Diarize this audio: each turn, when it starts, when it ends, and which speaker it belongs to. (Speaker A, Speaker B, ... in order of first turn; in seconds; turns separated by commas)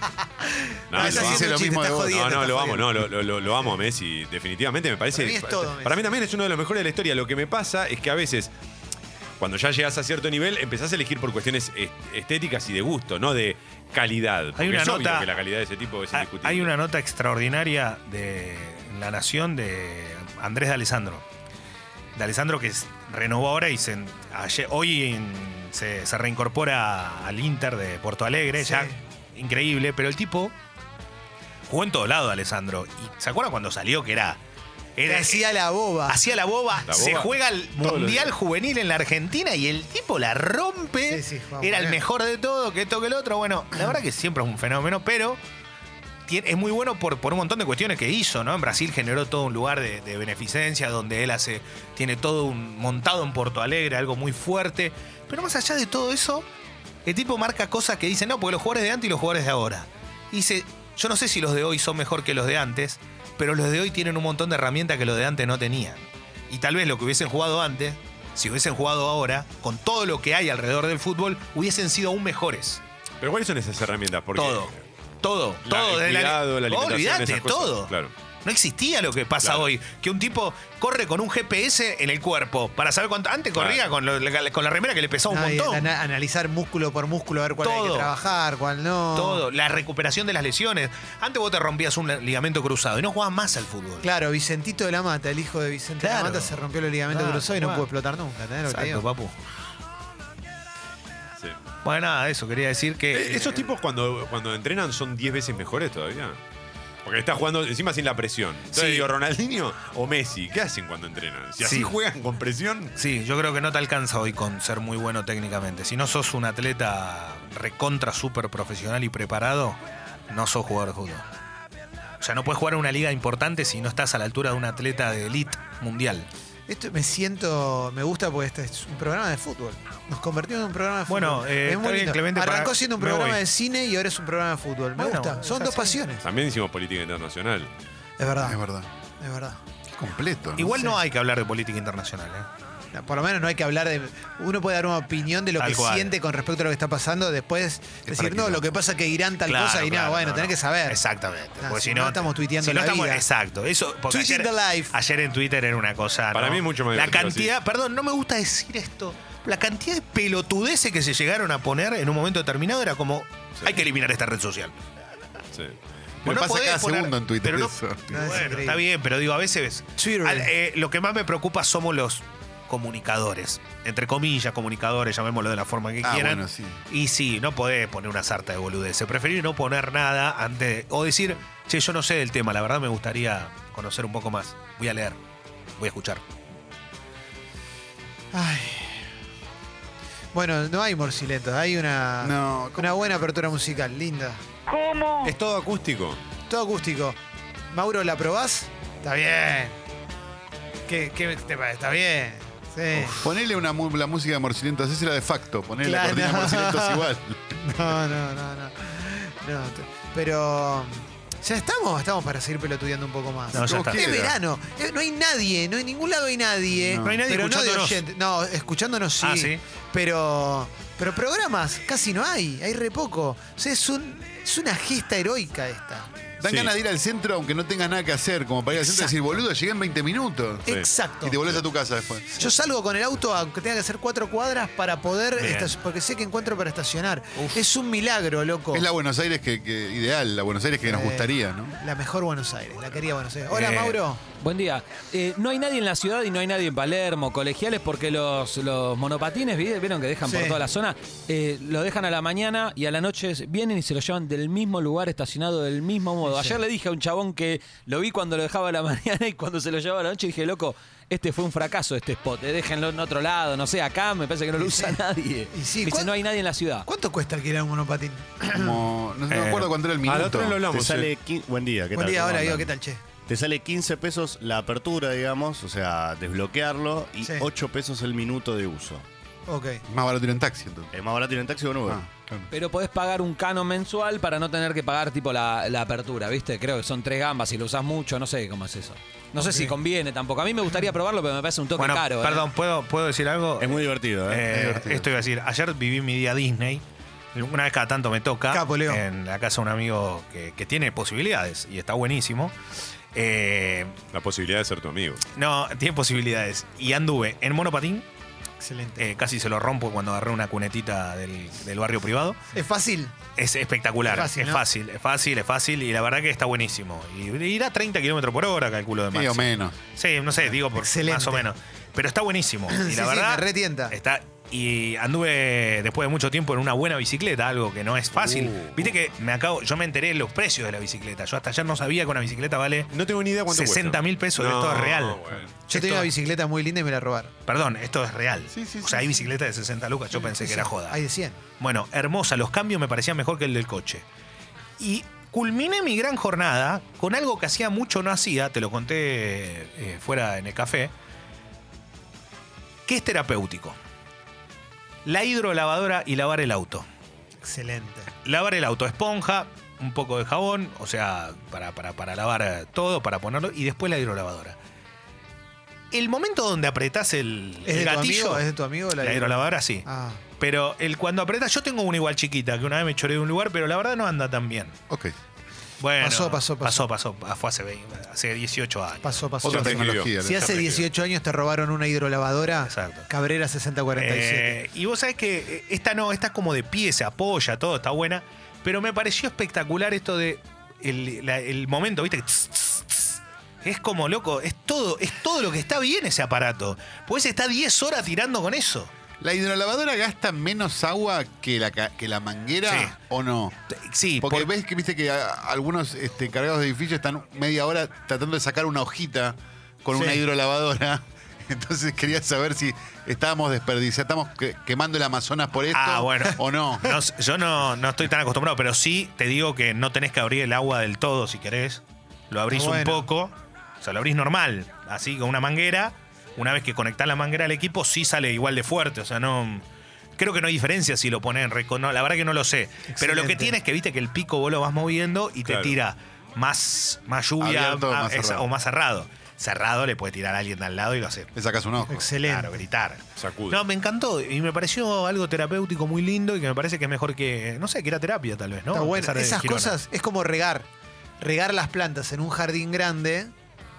Speaker A: 0.4-2.9, Speaker B: 0.9-8.5, Speaker C: 0.9-2.3, Speaker A: 5.1-6.1, Speaker B: 9.4-16.7, Speaker D: 14.6-15.3, Speaker D: 16.1-21.2, Speaker D: 22.2-30.5, Speaker A: 28.6-28.9, Speaker D: 31.7-34.4, Speaker D: 35.0-35.5, Speaker A: 35.1-36.2, Speaker D: 36.1-45.4, Speaker B: 36.9-38.3, Speaker A: 41.1-42.0, Speaker D: 46.3-56.5, Speaker D: 57.0-72.8, Speaker B: 73.2-74.8, Speaker D: 74.3-77.9, Speaker B: 75.7-78.1, Speaker D: 78.4-85.9, Speaker B: 83.6-83.8, Speaker A: 85.3-89.5, Speaker D: 87.6-88.1, Speaker D: 89.1-94.1, Speaker A: 94.0-99.0, Speaker D: 96.0-97.9, Speaker D: 98.7-99.4, Speaker D: 101.8-103.7, Speaker B: 103.1-106.4, Speaker B: 107.0-113.0, Speaker D: 108.7-109.1, Speaker D: 111.6-111.9, Speaker D: 113.0-119.8, Speaker D: 120.3-121.2, Speaker D: 122.2-126.3, Speaker A: 126.7-136.2, Speaker D: 131.1-133.4, Speaker D: 135.0-136.0, Speaker B: 136.2-137.7, Speaker A: 138.2-138.6, Speaker C: 138.4-138.9, Speaker A: 139.2-139.6, Speaker C: 140.0-140.9, Speaker D: 140.6-142.5, Speaker A: 140.7-141.0, Speaker A: 142.9-151.0, Speaker D: 145.6-146.2, Speaker C: 148.1-148.6, Speaker D: 149.5-164.8, Speaker A: 151.6-153.2, Speaker A: 154.1-154.9, Speaker B: 156.3-157.5, Speaker C: 166.2-168.4, Speaker D: 166.2-185.2, Speaker A: 168.1-168.8, Speaker A: 170.0-170.5, Speaker C: 176.0-176.8, Speaker D: 185.8-186.2, Speaker A: 188.3-189.1, Speaker A: 190.3-194.4, Speaker C: 192.2-193.2, Speaker B: 194.9-196.2, Speaker A: 196.5-197.2, Speaker A: 197.7-199.8, Speaker A: 200.9-203.3, Speaker C: 203.0-207.7, Speaker A: 205.8-226.1, Speaker D: 213.5-214.1, Speaker C: 213.5-214.4, Speaker C: 216.7-217.2, Speaker D: 216.9-218.0, Speaker D: 219.2-219.6, Speaker C: 226.4-232.4, Speaker B: 226.4-226.7, Speaker A: 228.7-229.2, Speaker A: 230.7-231.5, Speaker A: 232.3-238.9, Speaker D: 235.4-235.8, Speaker C: 238.7-241.8, Speaker A: 240.8-244.2, Speaker E: 243.5-266.9, Speaker A: 250.2-250.6, Speaker A: 256.2-256.6, Speaker A: 264.6-265.0, Speaker A: 265.5-266.2, Speaker A: 266.9-268.8, Speaker C: 268.5-270.6, Speaker D: 269.3-269.7, Speaker B: 270.0-271.1, Speaker F: 270.7-272.7, Speaker A: 271.9-273.0, Speaker F: 273.3-279.1, Speaker A: 277.2-277.5, Speaker A: 279.5-279.8, Speaker C: 279.9-280.9, Speaker F: 280.9-282.1, Speaker C: 281.9-282.5, Speaker E: 282.5-292.5, Speaker A: 289.4-289.8, Speaker D: 291.8-296.8, Speaker F: 293.6-294.5, Speaker C: 294.4-295.1, Speaker D: 297.4-302.6, Speaker A: 298.5-299.0, Speaker D: 303.1-304.0, Speaker B: 304.1-305.2, Speaker D: 305.3-308.1, Speaker A: 308.6-309.1, Speaker D: 309.0-312.4, Speaker A: 312.5-313.1, Speaker D: 313.4-332.9, Speaker A: 314.0-314.6, Speaker C: 319.1-319.8, Speaker A: 320.4-321.5, Speaker A: 322.7-323.9, Speaker B: 328.2-328.9, Speaker B: 332.9-335.5, Speaker D: 333.5-336.1, Speaker A: 335.7-337.3, Speaker D: 337.5-341.0, Speaker C: 338.5-339.3, Speaker A: 340.1-341.4, Speaker D: 341.6-344.1, Speaker D: 344.8-350.9, Speaker D: 352.9-353.8, Speaker D: 355.1-356.9, Speaker A: 357.4-358.1, Speaker D: 358.2-364.6, Speaker D: 365.9-368.5, Speaker A: 367.6-370.2, Speaker D: 369.0-369.9, Speaker D: 370.4-374.8, Speaker C: 374.9-375.1, Speaker D: 375.8-379.3, Speaker A: 376.0-376.9, Speaker A: 379.0-384.6, Speaker C: 379.4-380.7, Speaker B: 379.4-380.8, Speaker D: 382.7-383.1, Speaker D: 384.0-398.9, Speaker C: 399.2-403.5, Speaker D: 402.7-402.9, Speaker D: 403.7-404.5, Speaker C: 404.2-417.0, Speaker A: 409.9-410.2, Speaker D: 415.7-429.6, Speaker A: 422.5-423.1, Speaker D: 430.2-441.3, Speaker A: 432.9-433.6, Speaker B: 435.5-435.8, Speaker C: 437.4-438.5, Speaker C: 441.4-442.1, Speaker A: 441.9-442.6, Speaker D: 442.2-449.8, Speaker B: 443.2-443.6, Speaker A: 448.7-450.7, Speaker A: 451.2-453.3